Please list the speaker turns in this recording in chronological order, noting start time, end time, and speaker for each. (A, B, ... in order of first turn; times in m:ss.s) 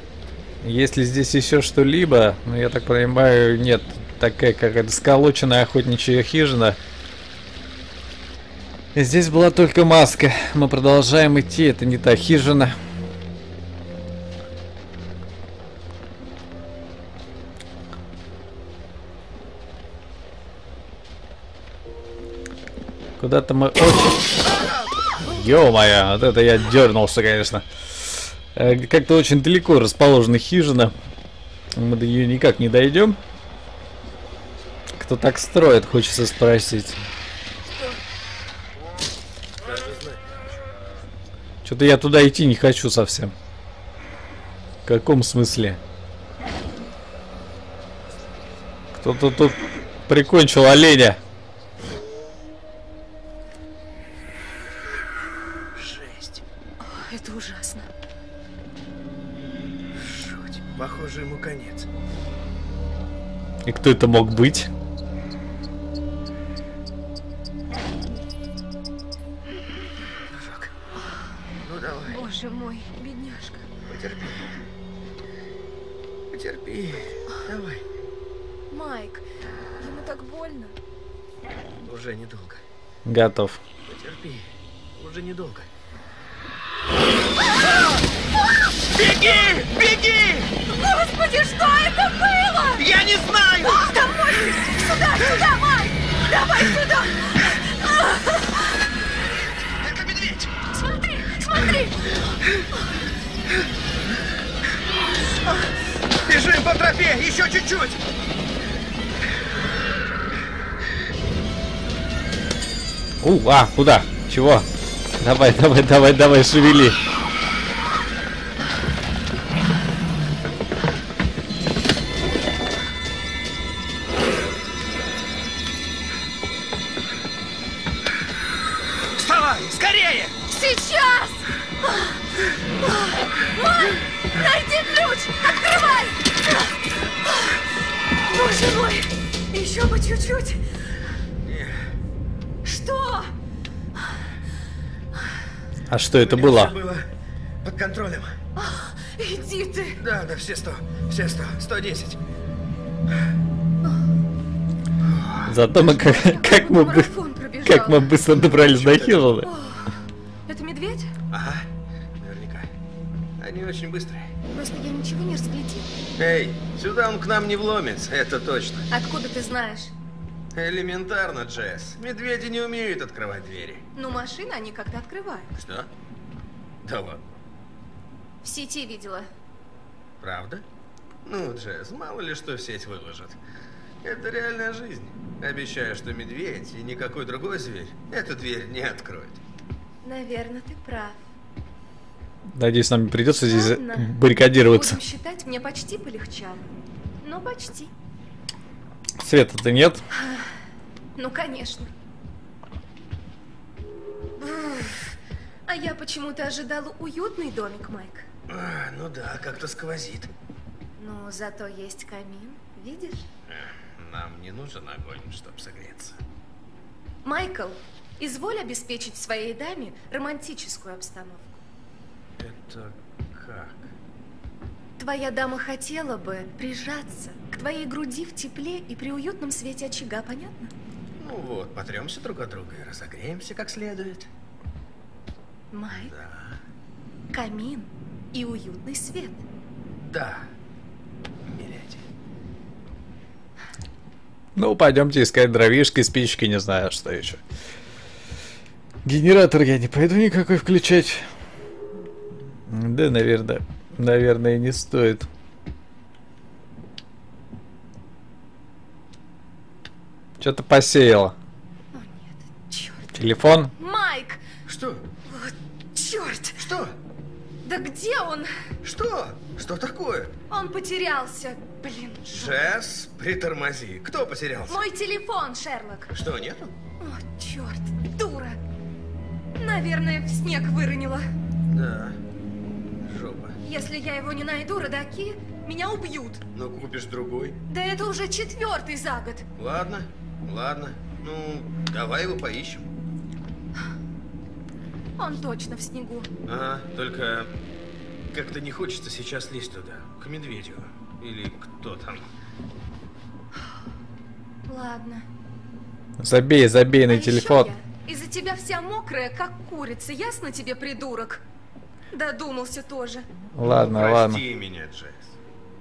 0:00.6-0:06.8 A
0:08.9-0:12.7 A
0:23.2-0:24.3 A
0:25.2-0:30.9 A
0:31.8-0:33.2 A
0:35.0-0:37.0 A
0:39.6-0:40.4 B
0:41.6-0:43.3 A
0:44.8-0:45.8 A
0:48.9-0:51.2 A
0:55.7-0:56.4 B
0:56.8-0:57.9 C
0:59.9-1:01.9 B
1:03.6-1:04.7 A
1:10.3-1:10.7 B
1:11.6-1:12.2 B
1:12.0-1:13.6 C
1:13.8-1:14.5 B
1:16.3-1:17.8 B
1:18.7-1:19.2 C
1:19.8-1:20.8 C
1:21.8-1:22.6 B
1:23.0-1:23.6 A
1:23.8-1:25.7 B
1:28.9-1:30.5 B
1:29.2-1:29.5 C
1:30.6-1:32.8 C
1:32.8-1:33.9 B
1:33.6-1:38.8 C
1:39.8-1:40.5 B
1:40.7-1:42.3 C
1:45.4-1:45.7 C
1:46.2-1:48.0 B
1:53.2-1:54.7 A
1:55.2-1:57.0 A
2:09.2-2:10.4 B
2:10.5-2:12.2 C
2:12.8-2:16.6 C
2:17.2-2:17.6 C
2:18.3-2:20.6 C
2:21.4-2:21.9 B
2:22.6-2:23.3 C
2:25.9-2:26.7 A
2:26.1-2:27.1 B
2:27.6-2:28.4 B
2:28.6-2:30.0 C
2:30.0-2:32.2 B
2:35.0-2:35.6 B
2:35.4-2:37.1 A
2:35.7-2:38.1 C
2:37.6-2:39.5 A
2:38.4-2:39.4 B
2:39.4-2:41.1 C
2:41.3-2:42.7 B
2:43.4-2:44.3 B
2:44.5-2:45.9 C
2:46.2-2:48.9 B
2:48.9-2:49.9 C
2:50.5-2:53.8 B
2:53.9-2:55.5 C
2:55.6-2:55.9 B
2:56.8-2:57.2 B
2:58.4-2:59.3 C
3:00.2-3:00.6 B
3:01.2-3:03.4 B
3:04.0-3:09.4 B
3:10.0-3:11.2 C
3:12.5-3:15.0 A
3:13.4-3:16.7 C
3:17.2-3:17.9 C
3:19.2-3:20.0 A
3:20.1-3:20.5 C
3:21.2-3:21.9 C
3:24.4-3:28.2 C
3:28.5-3:30.3 B
3:31.0-3:33.3 C
3:33.5-3:36.2 B
3:37.2-3:41.6 C
3:42.4-3:43.9 B
3:45.0-3:50.7 C
3:51.2-3:54.3 B
3:55.7-3:56.1 C
3:56.1-3:56.6 B
3:57.3-3:59.4 C
4:00.0-4:00.5 B
4:01.4-4:02.0 B
4:04.6-4:07.4 A
4:09.0-4:11.2 A
4:12.7-4:15.3 A
4:20.4-4:21.3 A
4:21.9-4:24.4 C
4:23.1-4:23.7 A
4:24.6-4:25.1 B
4:25.2-4:26.6 C
4:26.6-4:27.0 B
4:27.6-4:28.5 C
4:28.8-4:30.3 B
4:30.5-4:32.6 C
4:32.3-4:34.8 B
4:34.7-4:36.1 C
4:36.1-4:36.7 B
4:37.0-4:38.6 C
4:39.6-4:41.2 C
4:41.7-4:42.2 B
4:43.0-4:43.6 B
4:43.6-4:46.4 C
4:46.5-4:47.6 B
4:47.7-4:49.4 C
4:49.6-4:52.9 B
4:55.2-4:56.3 C
4:56.4-4:57.5 B
4:58.3-5:02.3 B
5:04.6-5:05.2 C
5:06.2-5:07.7 A
5:07.0-5:11.4 C
5:12.1-5:13.3 C
5:13.5-5:14.4 A
5:13.6-5:15.4 B